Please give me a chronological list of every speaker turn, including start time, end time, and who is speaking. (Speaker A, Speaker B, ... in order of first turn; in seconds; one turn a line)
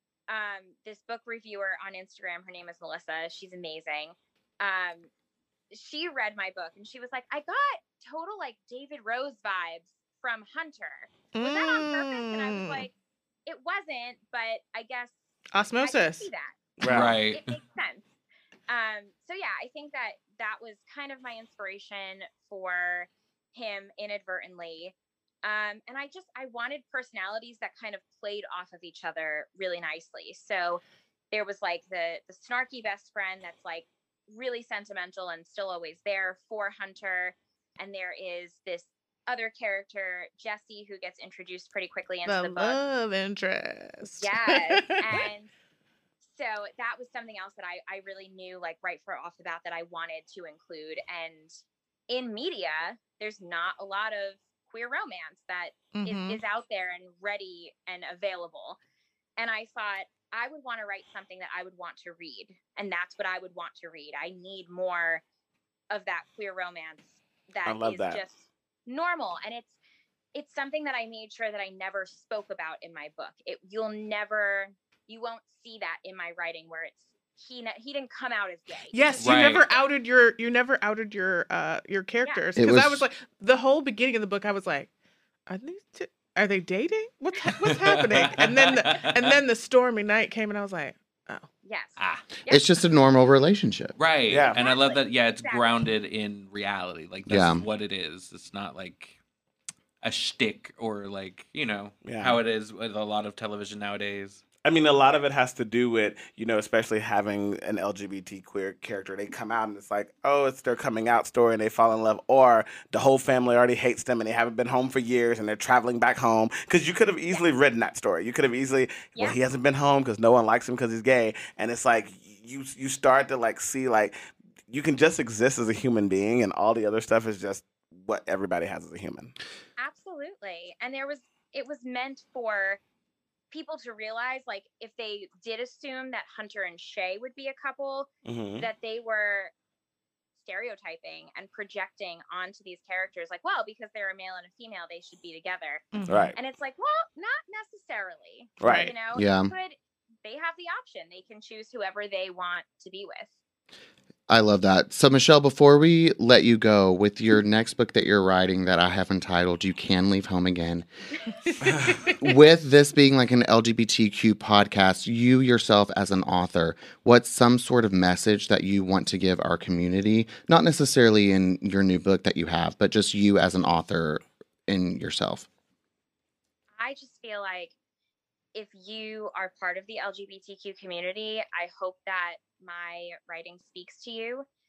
Speaker A: 0.3-5.1
Speaker A: 5.7-12.9
Speaker B: 11.3-12.8
Speaker A: 13.4-15.1
Speaker B: 15.5-16.3
Speaker A: 15.8-16.6
Speaker C: 16.8-17.2
Speaker D: 16.8-17.6
Speaker A: 17.3-18.0
Speaker A: 18.7-42.8
Speaker B: 42.2-45.3
Speaker A: 44.2-45.5
Speaker A: 46.2-51.6
Speaker A: 52.1-58.8
Speaker B: 55.9-56.4
Speaker A: 59.4-65.2
Speaker A: 65.9-69.8
Speaker C: 67.6-68.2
Speaker A: 70.3-79.7
Speaker B: 78.9-84.9
Speaker D: 79.2-79.6
Speaker E: 82.5-83.1
Speaker B: 85.5-91.4
Speaker D: 87.6-89.4
Speaker A: 91.6-92.7
Speaker D: 92.0-92.2
Speaker E: 92.5-93.9
Speaker D: 94.0-99.2
Speaker C: 94.3-94.6
Speaker A: 94.5-95.9
Speaker E: 97.3-97.6
Speaker D: 100.0-104.4
Speaker C: 102.0-102.4
Speaker C: 104.6-124.2
Speaker C: 124.7-129.3
Speaker A: 129.8-132.8
Speaker A: 133.5-139.5
Speaker C: 138.2-138.7
Speaker A: 140.4-153.3
Speaker B: 145.9-146.3
Speaker C: 146.1-146.3
Speaker C: 148.6-148.9
Speaker B: 148.6-148.9
Speaker E: 149.1-149.5
Speaker E: 154.3-160.9
Speaker B: 161.5-162.2
Speaker E: 162.0-175.5
Speaker A: 176.8-177.7
Speaker A: 178.5-184.4